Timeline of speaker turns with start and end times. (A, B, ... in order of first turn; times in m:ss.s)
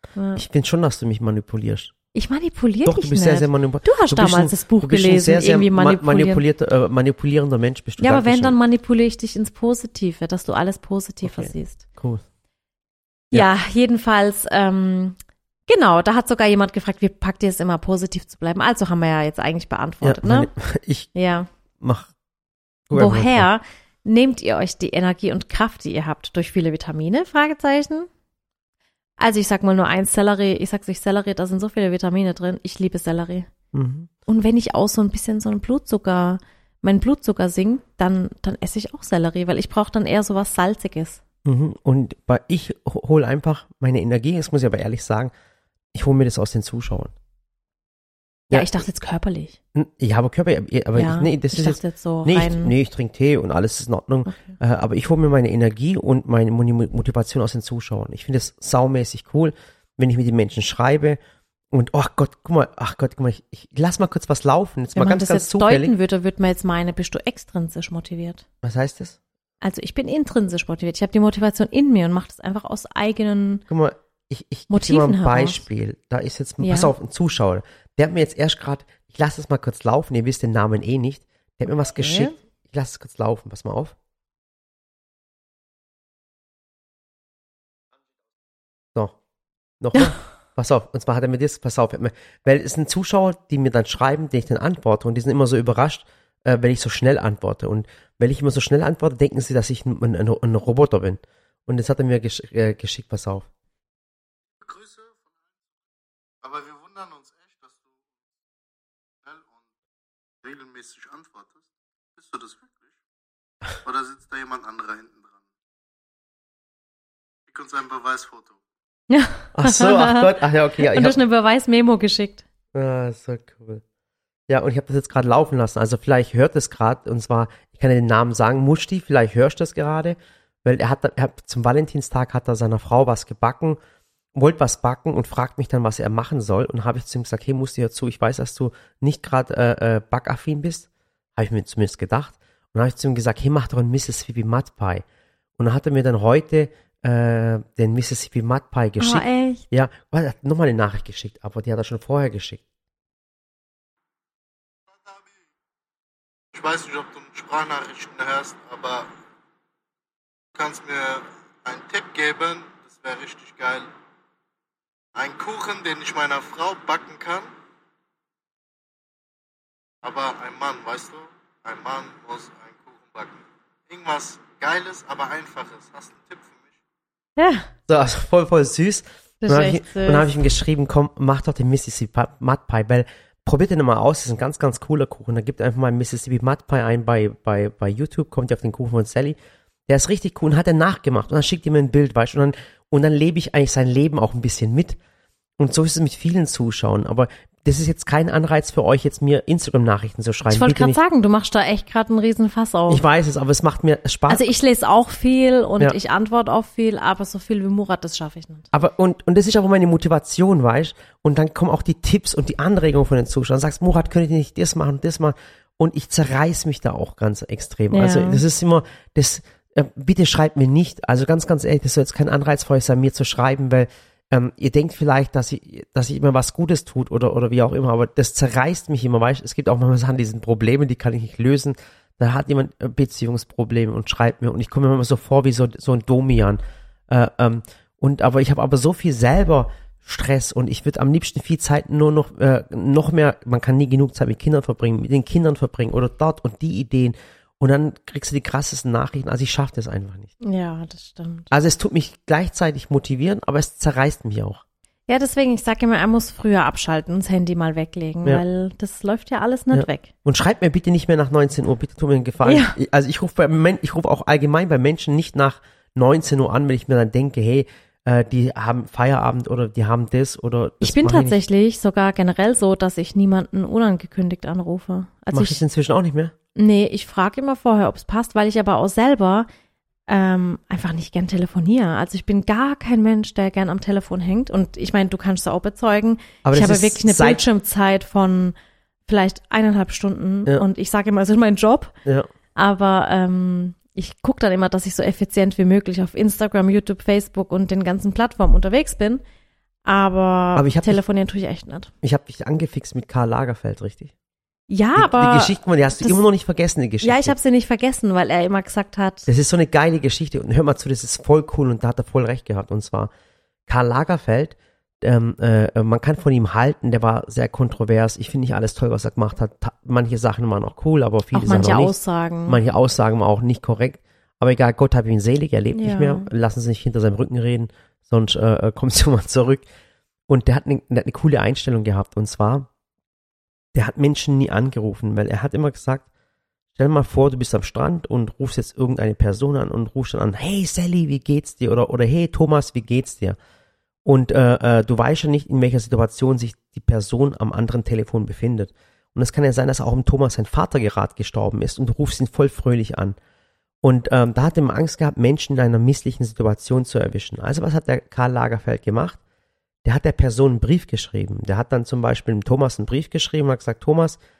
0:00.2-0:00.4 A
0:00.4-0:01.9 B
0:02.1-0:06.4 A
0:02.8-0:08.5 B
0:08.0-0:11.8 A
0:11.2-0:12.2 B
0:13.3-0:20.5 A
0:20.0-0:21.1 B
0:21.1-0:21.5 A
0:21.8-0:22.1 B
0:22.9-0:23.4 B
0:22.9-0:28.1 A
0:29.2-0:33.5 A
0:33.7-0:34.1 B
0:34.3-0:41.2 A
0:41.4-0:45.3 B
0:45.9-0:47.1 B
0:48.5-0:48.8 B
0:48.5-0:49.6 A
0:49.7-1:01.2 B
0:50.9-0:52.7 A
0:54.3-0:54.5 A
1:01.7-1:05.9 B
1:04.9-1:08.4 A
1:08.6-1:09.2 B
1:09.6-1:13.6 A
1:13.7-1:23.9 B
1:14.7-1:15.6 A
1:16.6-1:16.9 A
1:22.0-1:22.3 A
1:29.8-1:43.5 B
1:44.6-1:45.2 C
1:46.4-1:47.8 C
1:49.2-1:49.5 C
1:50.4-1:51.6 C
1:52.2-1:52.9 C
1:53.8-1:55.4 C
1:57.5-1:58.6 C
1:59.1-2:00.3 A
1:59.5-2:01.2 B
2:00.8-2:02.4 A
2:02.7-2:03.8 B
2:04.5-2:13.8 B
2:14.3-2:25.0 B
2:25.6-2:32.6 B
2:29.0-2:29.6 A
2:34.9-2:35.3 C
2:36.5-2:39.1 C
2:40.5-2:43.9 C
2:45.1-2:47.5 C
2:50.0-2:56.7 C
2:57.4-2:57.7 A
2:57.9-3:15.0 B
2:59.4-3:00.4 A
3:15.6-3:21.0 B
3:20.4-3:23.0 A
3:22.9-3:24.4 B
3:24.3-3:28.7 A
3:28.7-4:10.3 B
3:37.9-3:38.4 A
4:10.4-4:11.5 A
4:11.5-4:14.6 B
4:15.1-4:20.1 A
4:19.7-4:31.4 B
4:22.4-4:22.8 A
4:30.8-4:35.6 A
4:35.3-4:36.3 B
4:36.5-4:39.5 A
4:40.1-4:48.5 A
4:46.4-4:47.4 B
4:49.1-4:51.9 A
4:52.6-4:59.2 A
4:59.8-5:01.9 A
5:00.6-5:01.0 B
5:02.0-5:04.1 B
5:04.7-5:06.2 A
5:05.0-5:07.3 B
5:07.0-5:09.3 A
5:09.3-5:13.1 B
5:13.7-5:22.0 B
5:21.3-5:22.6 A
5:22.5-5:29.6 B
5:25.7-5:26.3 A
5:30.3-5:32.7 B
5:33.7-5:36.0 B
5:36.7-5:43.4 B
5:44.0-5:53.2 B
5:53.8-5:59.2 B
5:59.8-6:04.2 B